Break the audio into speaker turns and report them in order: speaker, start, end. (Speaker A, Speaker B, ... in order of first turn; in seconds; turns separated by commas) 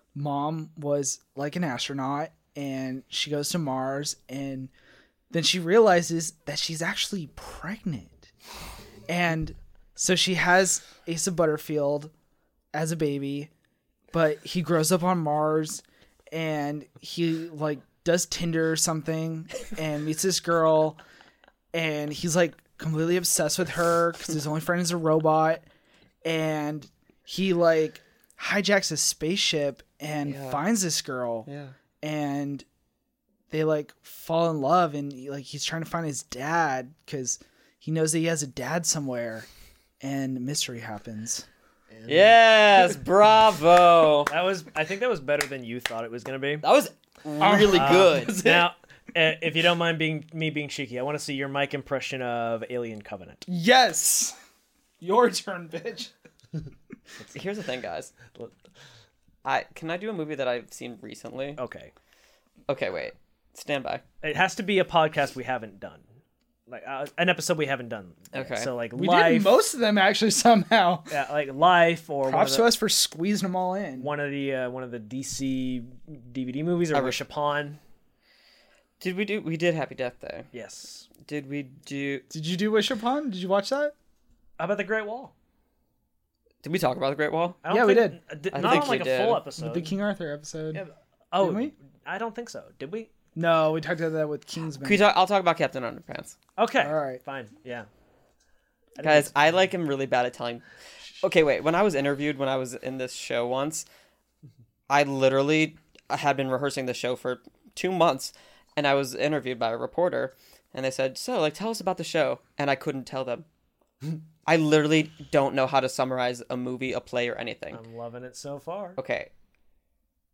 Speaker A: 0.1-4.7, Speaker A: 5.3-8.3, Speaker A: 9.1-12.1, Speaker A: 12.7-13.5, Speaker A: 14.1-21.0, Speaker A: 21.7-25.6, Speaker A: 26.2-31.5, Speaker B: 30.2-30.6, Speaker B: 31.4-31.7, Speaker A: 32.0-32.6, Speaker A: 33.5-39.5, Speaker A: 40.0-41.5, Speaker C: 42.0-42.4, Speaker B: 42.1-44.3, Speaker C: 44.3-46.6, Speaker B: 46.6-48.4, Speaker A: 47.4-48.7, Speaker C: 47.7-53.5, Speaker A: 53.5-54.3, Speaker A: 55.0-56.1, Speaker B: 57.3-58.1, Speaker B: 59.4-61.6, Speaker C: 61.6-61.9, Speaker B: 62.7-64.0, Speaker C: 64.2-66.0, Speaker C: 66.7-69.6, Speaker B: 68.3-68.7, Speaker A: 68.9-71.1, Speaker C: 71.1-72.7, Speaker A: 72.2-74.1, Speaker C: 74.0-77.8, Speaker B: 79.0-80.5, Speaker C: 80.5-81.1, Speaker B: 81.2-82.2, Speaker A: 82.3-83.9, Speaker C: 84.6-85.3, Speaker B: 86.6-87.6, Speaker C: 87.6-89.9, Speaker A: 87.7-89.0, Speaker B: 88.5-89.4, Speaker A: 89.6-90.8, Speaker C: 90.7-93.1, Speaker A: 91.4-91.7, Speaker A: 93.3-95.0, Speaker B: 94.8-96.3, Speaker C: 96.6-97.9, Speaker A: 96.8-97.2, Speaker C: 99.0-99.3, Speaker B: 99.0-100.6, Speaker B: 101.2-103.8, Speaker B: 104.9-113.5, Speaker B: 114.5-117.8, Speaker C: 117.7-119.0, Speaker B: 119.0-119.3